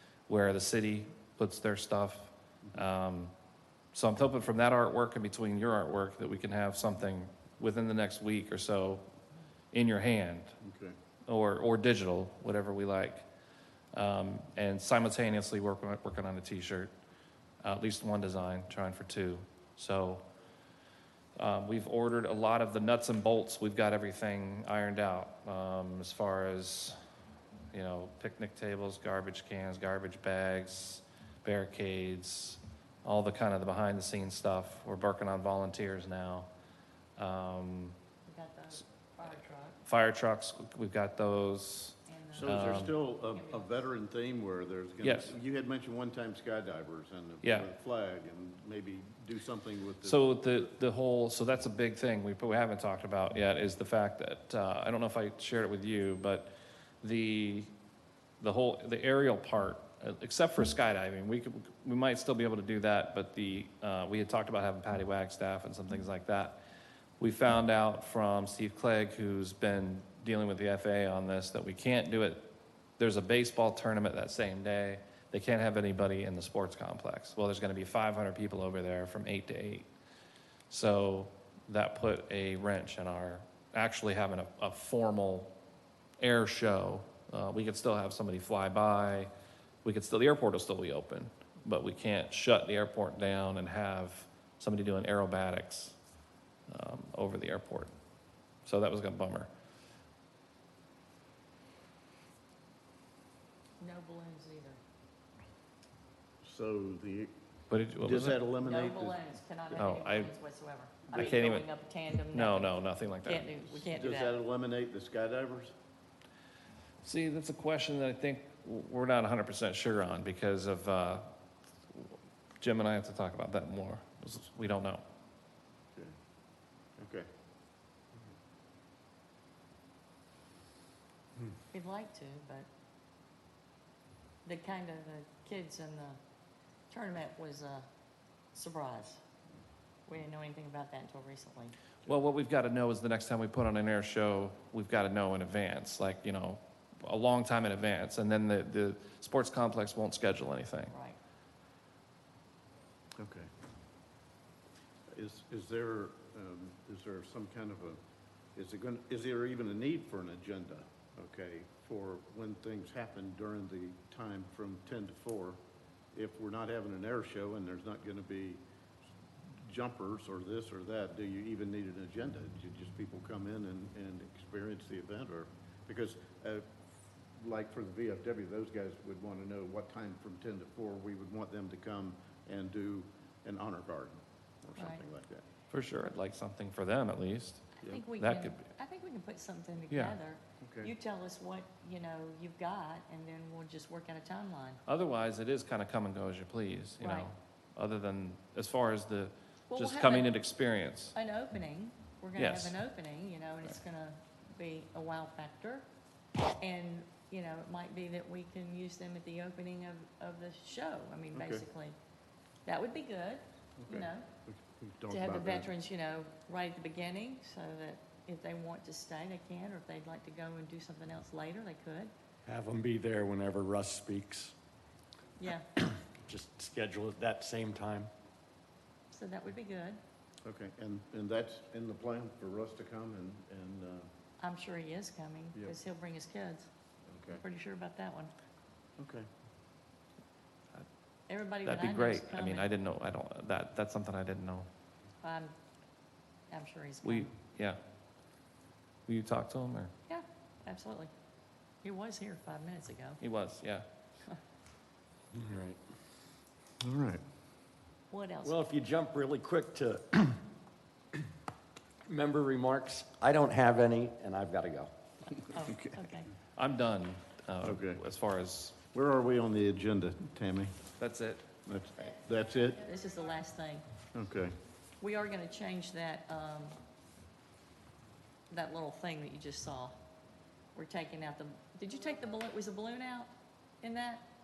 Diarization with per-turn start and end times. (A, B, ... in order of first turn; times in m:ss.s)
0:00.3-0:03.3 A
0:03.9-0:09.1 A
0:09.7-0:10.6 A
0:10.6-0:11.0 B
0:11.3-0:13.3 A
0:13.9-0:16.9 A
0:17.6-0:20.2 A
0:21.4-0:27.0 A
0:27.7-0:36.5 A
0:37.2-0:38.0 A
0:38.3-0:39.8 C
0:39.8-0:43.0 A
0:42.1-0:43.8 C
0:42.4-0:50.3 B
0:45.0-0:45.3 A
0:47.4-0:47.7 A
0:50.0-0:57.7 A
0:58.4-1:06.6 A
1:07.2-1:19.9 A
1:20.7-1:25.5 A
1:26.2-1:29.3 A
1:29.8-1:36.0 A
1:36.7-1:37.9 A
1:38.6-1:39.5 A
1:43.8-1:44.8 C
1:46.4-1:47.3 B
1:47.7-1:48.4 A
1:48.0-1:49.2 B
1:48.6-1:54.4 C
1:49.7-1:50.3 A
1:51.1-1:51.7 A
1:52.3-1:53.5 A
1:53.8-1:55.7 B
1:57.0-2:01.3 A
2:01.9-2:05.0 A
2:07.0-2:07.3 B
2:11.7-2:12.7 C
2:14.4-2:16.2 C
2:16.9-2:17.9 C
2:18.5-2:19.2 C
2:20.1-2:21.8 C
2:22.1-2:30.9 A
2:30.9-2:31.2 C
2:33.2-2:33.5 B
2:35.1-2:38.0 B
2:38.6-2:45.6 B
2:46.1-2:48.6 B
2:49.6-2:56.7 B
2:57.4-3:05.4 B
3:05.7-3:08.7 A
3:07.8-3:14.8 C
3:09.9-3:10.2 A
3:10.6-3:10.9 B
3:14.9-3:21.2 A
3:17.0-3:17.3 C
3:19.7-3:20.3 C
3:21.2-3:25.9 C
3:22.4-3:22.8 A
3:26.6-3:32.0 C
3:31.3-3:31.6 B
3:32.7-3:34.3 C
3:33.8-3:35.7 B
3:35.1-3:42.1 C
3:42.5-3:44.6 D
3:45.4-3:45.7 C
3:46.1-3:48.1 D
3:49.1-3:50.0 C
3:50.4-3:54.1 B
3:54.4-3:56.7 C
3:57.1-3:57.4 B
3:57.3-3:58.3 C
3:59.0-3:59.3 B
4:01.3-4:02.7 C
4:01.6-4:04.7 A
4:05.2-4:05.6 C
4:06.5-4:07.3 C
4:07.0-4:07.8 A
4:09.1-4:09.9 A
4:10.1-4:11.1 C
4:11.8-4:13.2 C
4:13.2-4:13.9 A
4:15.3-4:15.8 D
4:16.8-4:17.2 B
4:18.1-4:18.6 C
4:18.4-4:20.4 D
4:22.1-4:24.9 D
4:25.4-4:26.3 C
4:26.6-4:28.8 A
4:27.6-4:28.0 B
4:28.9-4:30.8 B
4:31.0-4:31.4 A
4:31.7-4:32.9 B
4:32.8-4:33.8 C
4:34.1-4:34.6 B
4:35.0-4:36.8 C
4:38.5-4:40.0 C
4:40.8-4:43.3 C
4:43.8-4:44.3 C